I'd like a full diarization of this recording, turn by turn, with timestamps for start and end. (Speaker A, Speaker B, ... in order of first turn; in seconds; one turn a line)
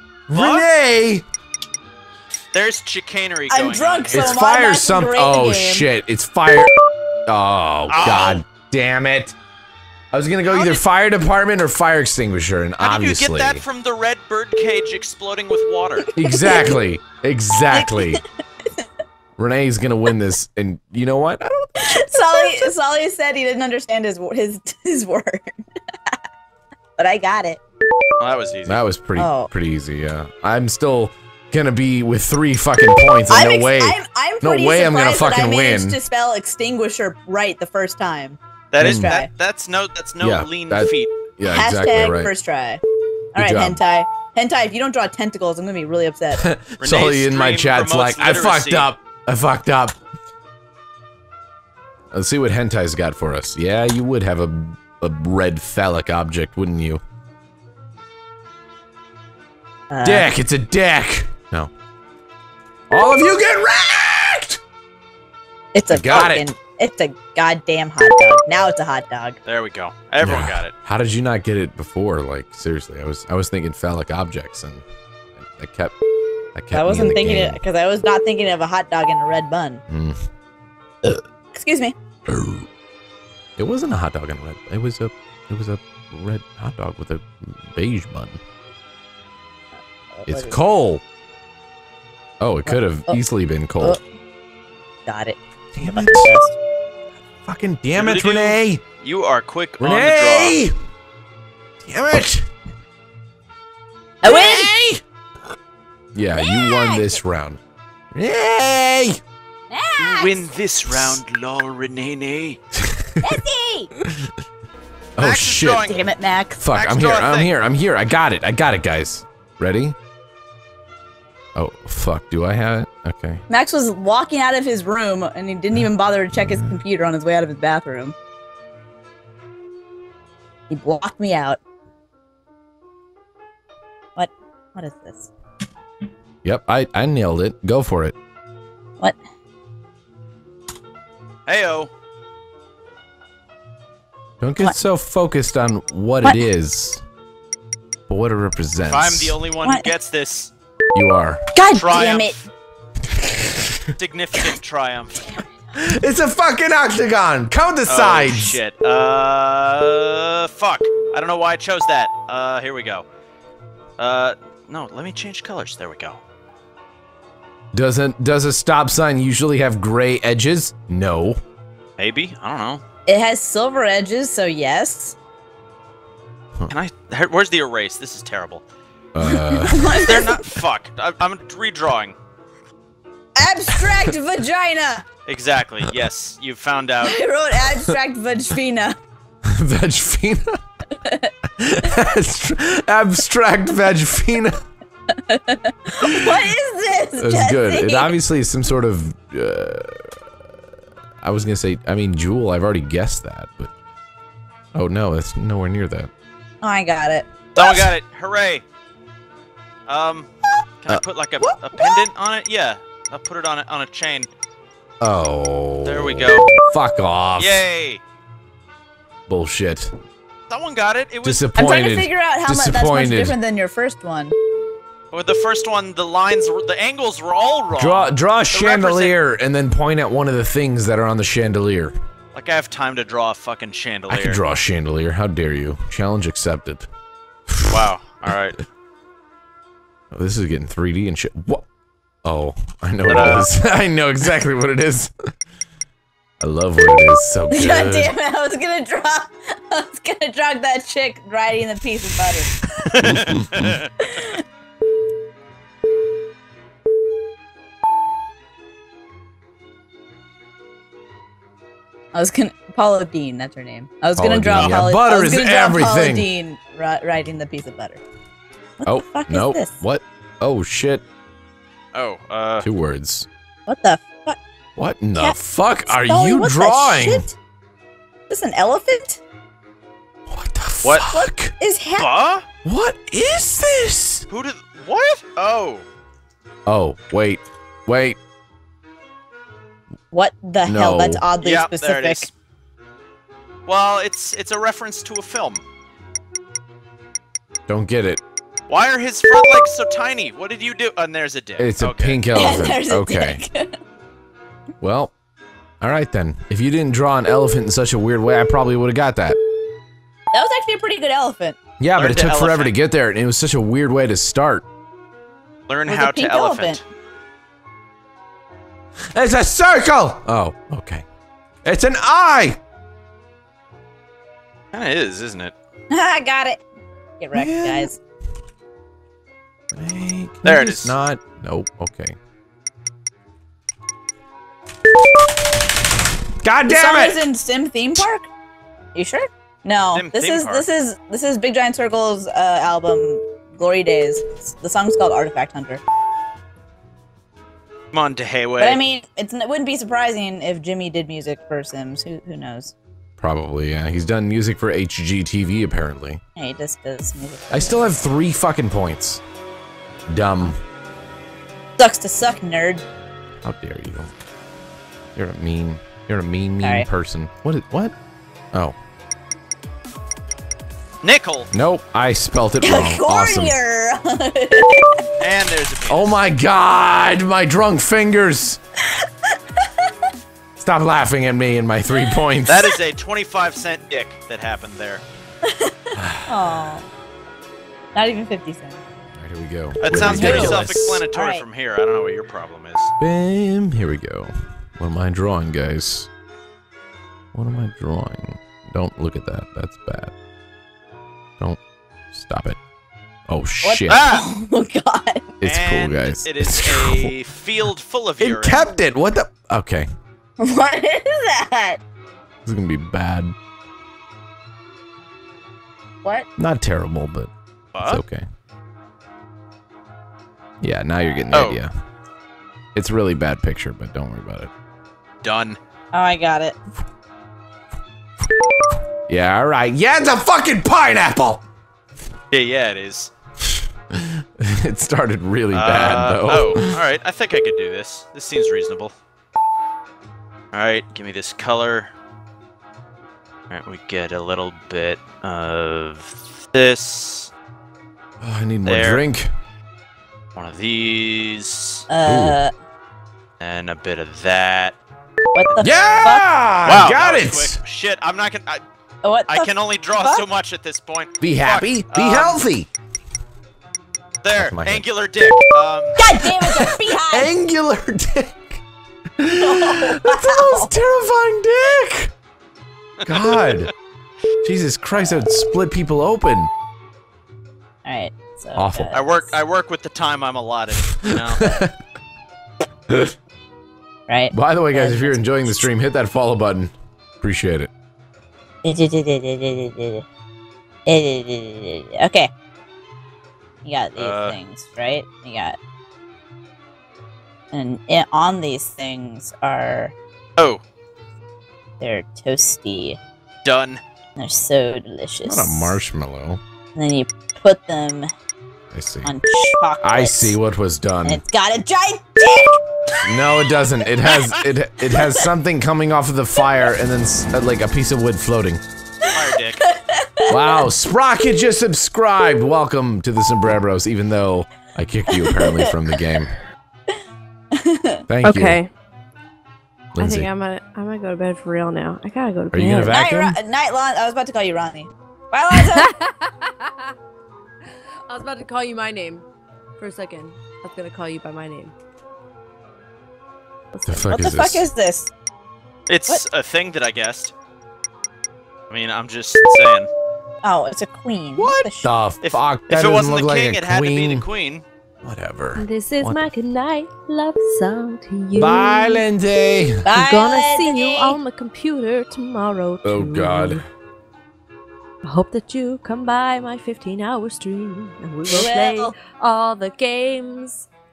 Speaker A: 0.3-1.2
Speaker B: 0.3-0.7
Speaker B: 2.5-4.4
Speaker C: 3.5-5.9
Speaker A: 4.1-6.7
Speaker A: 7.3-9.3
Speaker B: 7.9-8.4
Speaker A: 10.1-13.6
Speaker B: 10.4-10.8
Speaker B: 12.8-16.1
Speaker A: 16.1-18.2
Speaker C: 16.2-16.7
Speaker C: 17.7-18.2
Speaker A: 19.4-22.7
Speaker C: 21.8-25.5
Speaker C: 27.0-27.6
Speaker B: 28.2-28.8
Speaker A: 28.6-36.0
Speaker C: 29.1-29.5
Speaker C: 33.3-39.3
Speaker B: 38.7-41.1
Speaker A: 38.8-39.2
Speaker A: 40.2-42.3
Speaker C: 41.4-42.8
Speaker C: 43.3-46.5
Speaker A: 43.4-43.8
Speaker A: 46.3-50.0
Speaker B: 46.8-48.9
Speaker A: 52.1-57.0
Speaker C: 59.9-60.3
Speaker A: 60.0-61.7
Speaker A: 62.9-64.6
Speaker C: 65.7-69.4
Speaker A: 65.9-66.5
Speaker B: 66.0-66.3
Speaker B: 69.5-70.7
Speaker A: 70.2-74.8
Speaker A: 75.4-76.0
Speaker A: 76.5-77.6
Speaker C: 76.7-79.8
Speaker A: 79.9-80.2
Speaker C: 81.5-81.9
Speaker A: 82.3-82.7
Speaker A: 83.6-88.4
Speaker C: 90.1-90.6
Speaker A: 90.3-91.0
Speaker A: 92.4-94.0
Speaker C: 92.7-93.2
Speaker C: 95.0-96.6
Speaker A: 95.7-96.3
Speaker A: 97.4-98.8
Speaker B: 97.9-100.6
Speaker A: 99.8-100.7
Speaker A: 101.8-102.5
Speaker C: 104.2-104.7
Speaker A: 104.2-105.0
Speaker A: 106.1-107.6
Speaker C: 106.3-107.2
Speaker A: 108.1-109.2
Speaker C: 109.7-110.5
Speaker B: 110.0-112.6
Speaker A: 110.9-111.2
Speaker A: 112.8-113.2
Speaker C: 113.2-113.9
Speaker A: 114.0-114.3
Speaker A: 115.2-115.9
Speaker B: 115.2-116.1
Speaker C: 115.8-116.6
Speaker A: 116.6-120.0
Speaker B: 116.7-117.5
Speaker A: 121.5-123.4
Speaker C: 123.5-128.1
Speaker C: 130.7-131.6
Speaker C: 134.2-135.3
Speaker A: 136.4-138.1
Speaker B: 141.5-141.9
Speaker A: 144.4-147.0
Speaker A: 148.1-149.4
Speaker B: 148.9-150.5
Speaker C: 149.6-149.9
Speaker A: 150.9-151.4
Speaker C: 151.5-152.4
Speaker B: 151.7-152.5
Speaker A: 153.1-153.9
Speaker B: 153.9-155.4
Speaker A: 155.7-158.6
Speaker B: 157.8-163.1
Speaker B: 164.0-166.2
Speaker A: 167.7-171.4
Speaker B: 172.0-172.8
Speaker C: 173.1-175.2
Speaker B: 176.7-178.6
Speaker A: 179.1-180.0
Speaker C: 179.2-180.4
Speaker B: 180.0-182.2
Speaker C: 183.3-185.0
Speaker B: 185.3-187.2
Speaker C: 187.0-188.9
Speaker A: 189.4-190.6
Speaker C: 191.0-191.3
Speaker A: 191.6-194.6
Speaker C: 195.3-198.1
Speaker A: 196.0-196.5
Speaker A: 197.2-200.2
Speaker A: 201.2-203.7
Speaker A: 204.7-206.1
Speaker C: 206.6-207.3
Speaker B: 207.6-208.6
Speaker B: 209.9-210.3
Speaker B: 210.8-214.3
Speaker C: 211.7-212.1
Speaker A: 215.0-217.6
Speaker B: 215.8-216.5
Speaker B: 217.4-218.0
Speaker A: 219.3-219.9
Speaker B: 220.5-221.5
Speaker A: 221.2-223.4
Speaker C: 221.5-224.3
Speaker B: 225.1-229.1
Speaker A: 227.8-231.9
Speaker B: 232.3-234.4
Speaker A: 234.1-236.9
Speaker A: 237.5-237.9
Speaker B: 237.7-238.6
Speaker A: 240.1-241.7
Speaker A: 242.2-245.1
Speaker B: 243.1-243.5
Speaker A: 246.4-248.1
Speaker C: 247.5-252.6
Speaker B: 252.8-253.9
Speaker A: 253.0-253.8
Speaker C: 254.0-254.4
Speaker C: 262.1-268.0
Speaker A: 264.1-266.3
Speaker B: 264.5-264.8
Speaker C: 268.8-269.8
Speaker A: 268.8-271.0
Speaker B: 271.9-272.7
Speaker A: 272.6-273.3
Speaker C: 273.6-274.4
Speaker A: 274.8-277.3
Speaker C: 275.1-277.3
Speaker C: 278.3-279.2
Speaker A: 280.3-281.5
Speaker B: 280.8-281.1
Speaker C: 281.1-282.1
Speaker B: 282.0-282.4
Speaker A: 282.6-284.2
Speaker B: 284.3-285.8
Speaker A: 286.6-288.2
Speaker C: 290.1-292.3
Speaker A: 290.6-291.2
Speaker B: 291.4-292.3
Speaker B: 293.6-295.6
Speaker A: 297.7-298.2
Speaker B: 298.7-302.3
Speaker A: 301.6-303.4
Speaker C: 302.3-303.8
Speaker A: 304.8-305.1
Speaker A: 305.8-309.4
Speaker C: 310.3-311.6
Speaker A: 311.8-314.6
Speaker B: 311.9-312.7
Speaker B: 315.7-316.8
Speaker C: 315.9-316.8
Speaker A: 319.1-321.0
Speaker A: 321.6-322.6
Speaker B: 324.7-325.5
Speaker C: 325.9-326.6
Speaker C: 327.2-328.0
Speaker A: 327.3-327.9
Speaker A: 329.7-332.2
Speaker B: 330.4-331.0
Speaker A: 336.4-337.2
Speaker C: 336.7-338.3
Speaker C: 338.9-345.8
Speaker B: 339.9-340.7
Speaker B: 347.9-348.8
Speaker C: 348.6-352.7
Speaker A: 353.2-356.2
Speaker C: 356.4-358.0
Speaker A: 357.5-359.2
Speaker A: 360.1-360.6
Speaker C: 361.8-362.8
Speaker A: 363.4-364.1
Speaker A: 365.1-367.9
Speaker C: 366.6-366.9
Speaker B: 371.0-371.5
Speaker A: 371.5-373.6
Speaker C: 372.6-375.0
Speaker B: 375.2-376.2
Speaker A: 375.9-378.6
Speaker A: 380.6-382.6
Speaker B: 382.4-385.0
Speaker C: 385.5-386.9
Speaker A: 385.9-386.3
Speaker C: 387.9-388.8
Speaker A: 389.2-391.0
Speaker B: 389.8-392.9
Speaker C: 389.9-391.4
Speaker A: 393.0-396.1
Speaker A: 397.3-400.1
Speaker A: 402.1-402.6
Speaker A: 403.3-404.1
Speaker C: 403.6-405.3
Speaker B: 403.9-404.2
Speaker A: 405.4-407.1
Speaker B: 405.4-408.8
Speaker A: 408.2-409.9
Speaker C: 410.4-411.8
Speaker A: 412.4-413.3
Speaker A: 416.4-417.3
Speaker B: 417.7-418.0
Speaker A: 417.8-418.2
Speaker A: 420.6-421.7
Speaker B: 421.3-421.6
Speaker A: 422.7-424.5
Speaker B: 425.2-425.6
Speaker C: 425.9-426.6
Speaker A: 429.1-431.4
Speaker B: 432.3-433.1
Speaker A: 433.4-436.8
Speaker B: 435.5-438.9
Speaker B: 440.5-441.9
Speaker B: 443.5-447.3
Speaker A: 448.2-449.3
Speaker B: 448.6-449.0
Speaker B: 450.4-451.9
Speaker C: 451.9-452.5
Speaker A: 452.1-452.4
Speaker B: 453.4-454.8
Speaker C: 455.3-456.2
Speaker B: 455.4-456.1
Speaker A: 455.6-457.6
Speaker B: 456.6-458.6
Speaker C: 459.0-460.2
Speaker B: 459.3-462.4
Speaker A: 461.2-462.7
Speaker B: 464.2-466.0
Speaker A: 464.3-464.8
Speaker C: 466.0-467.3
Speaker A: 466.2-468.6
Speaker A: 469.2-472.1
Speaker C: 469.4-470.7
Speaker B: 473.0-473.7
Speaker A: 473.1-473.7
Speaker A: 474.4-476.5
Speaker C: 477.8-479.3
Speaker A: 478.6-479.0
Speaker B: 478.9-481.6
Speaker A: 481.1-481.7
Speaker C: 484.1-485.7
Speaker A: 484.3-487.7
Speaker C: 488.6-490.0
Speaker C: 490.9-492.3
Speaker C: 493.6-495.6
Speaker B: 494.0-494.4
Speaker C: 497.5-499.9
Speaker B: 500.4-500.6
Speaker C: 501.8-503.0
Speaker B: 503.4-503.8
Speaker C: 504.2-505.8
Speaker A: 505.2-506.4
Speaker C: 506.8-508.1
Speaker A: 508.7-509.1
Speaker C: 509.0-510.4
Speaker A: 509.8-511.2
Speaker C: 511.0-514.1
Speaker A: 513.0-518.6
Speaker C: 514.9-515.3
Speaker B: 519.1-519.6
Speaker C: 519.6-520.6
Speaker A: 520.3-526.3
Speaker C: 525.1-525.9
Speaker C: 527.5-528.0
Speaker A: 528.1-528.6
Speaker D: 528.2-528.7
Speaker A: 529.9-530.3
Speaker D: 530.0-532.9
Speaker A: 532.5-533.4
Speaker C: 532.9-536.0
Speaker D: 535.6-536.7
Speaker D: 538.1-539.2
Speaker D: 539.8-541.7
Speaker D: 543.7-544.1
Speaker A: 543.8-544.7
Speaker C: 544.0-545.1
Speaker B: 545.9-547.3
Speaker B: 548.7-549.9
Speaker C: 550.4-551.9
Speaker A: 551.4-554.3
Speaker B: 552.2-554.6
Speaker A: 555.0-556.3
Speaker D: 555.5-559.0
Speaker A: 558.3-559.8
Speaker C: 559.8-561.2
Speaker D: 559.9-563.6
Speaker A: 562.8-563.6
Speaker D: 565.0-570.7
Speaker C: 568.3-569.0